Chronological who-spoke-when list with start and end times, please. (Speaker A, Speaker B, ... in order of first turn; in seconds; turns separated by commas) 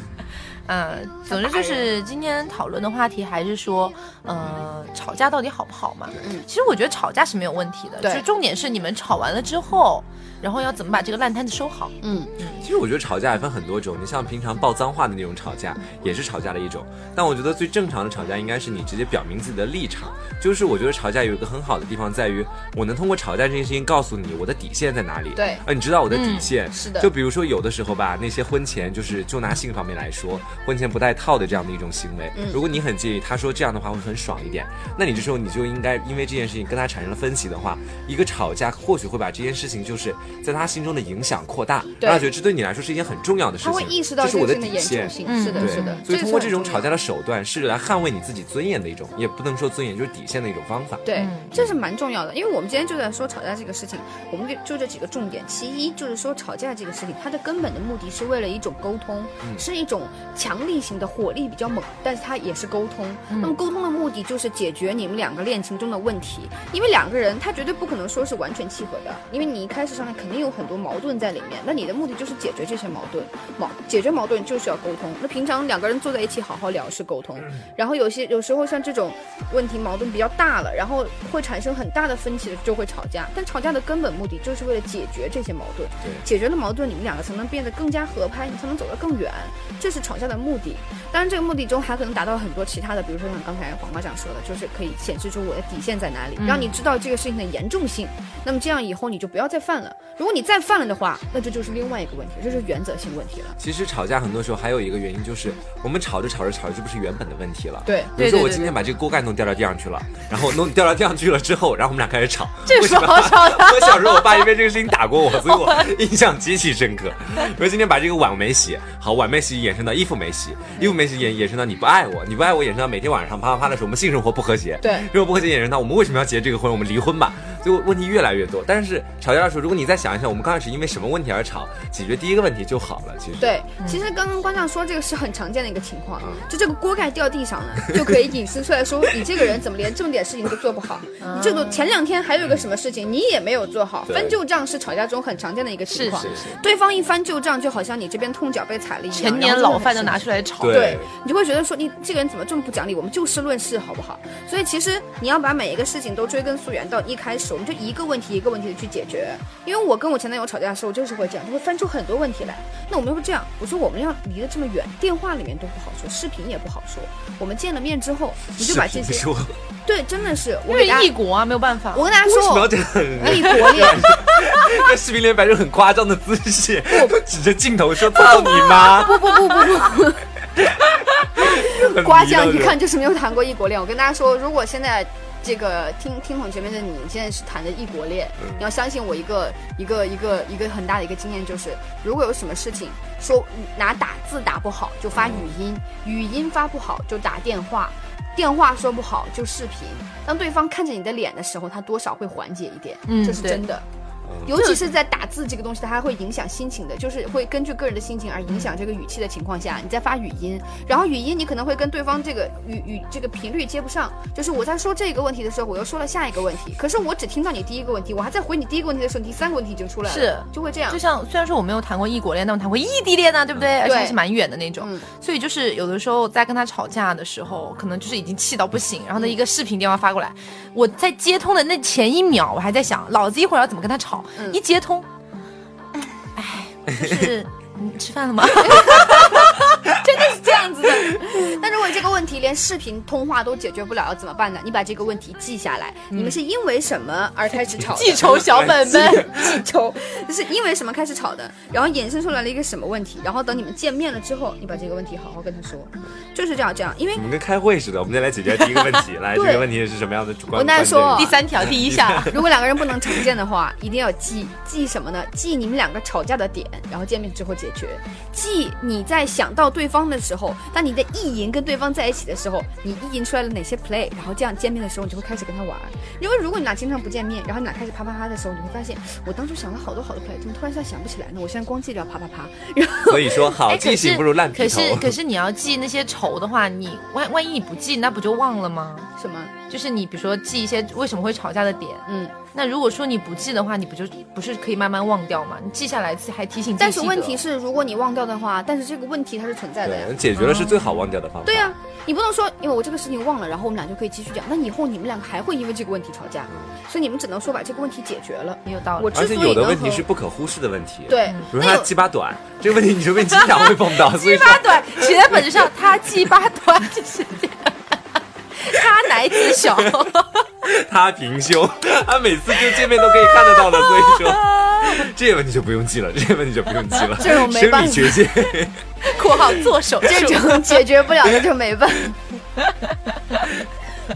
Speaker A: 0.7-12.6, Speaker B: 1.3-1.9, Speaker B: 12.0-12.3, Speaker C: 12.6-51.7, Speaker B: 25.4-25.6, Speaker A: 26.1-26.5, Speaker B: 26.7-27.1, Speaker B: 32.3-32.6, Speaker B: 42.0-42.3, Speaker B: 43.6-46.9, Speaker A: 45.2-46.0, Speaker B: 51.0-103.6, Speaker A: 51.1-51.5, Speaker A: 63.3-63.6, Speaker A: 96.4-96.8, Speaker C: 103.6-133.6, Speaker B: 107.8-108.1, Speaker A: 108.2-108.7, Speaker A: 112.6-114.4, Speaker A: 115.5-115.9, Speaker B: 124.8-125.1, Speaker B: 133.4-169.2, Speaker A: 141.2-141.9, Speaker C: 144.1-144.4, Speaker A: 145.9-146.6, Speaker C: 146.2-146.4, Speaker A: 149.1-150.9, Speaker C: 150.6-151.1, Speaker C: 168.6-169.6, Speaker B: 169.8-171.1, Speaker A: 170.7-172.1, Speaker B: 171.9-174.3, Speaker C: 172.2-179.6, Speaker B: 176.9-177.2, Speaker B: 178.1-180.3, Speaker C: 180.6-182.8, Speaker B: 181.3-203.8, Speaker C: 195.1-195.6, Speaker A: 203.1-203.6, Speaker C: 204.2-204.5, Speaker B: 204.4-221.0, Speaker A: 204.5-204.8, Speaker A: 220.1-235.1, Speaker B: 223.8-224.2, Speaker B: 224.8-225.1, Speaker A: 236.3-239.6, Speaker B: 238.6-257.2, Speaker A: 246.1-246.4, Speaker A: 247.7-249.5, Speaker C: 248.2-248.8, Speaker C: 257.1-262.4, Speaker B: 259.3-259.7, Speaker B: 260.5-261.3, Speaker A: 261.1-262.4, Speaker B: 262.2-283.6, Speaker C: 283.1-285.1, Speaker A: 283.6-289.1, Speaker B: 289.2-289.5, Speaker A: 289.7-297.4, Speaker B: 292.1-292.4, Speaker B: 296.8-300.1, Speaker C: 299.8-301.7, Speaker A: 300.4-300.9, Speaker B: 301.4-310.1, Speaker A: 308.6-309.1, Speaker C: 309.1-315.6, Speaker B: 311.1-311.9, Speaker A: 313.3-317.8, Speaker A: 318.5-320.5, Speaker C: 319.6-319.9, Speaker C: 320.6-328.8, Speaker A: 323.0-325.0, Speaker B: 327.1-328.4, Speaker A: 329.0-330.9, Speaker B: 330.0-332.2, Speaker A: 332.6-333.4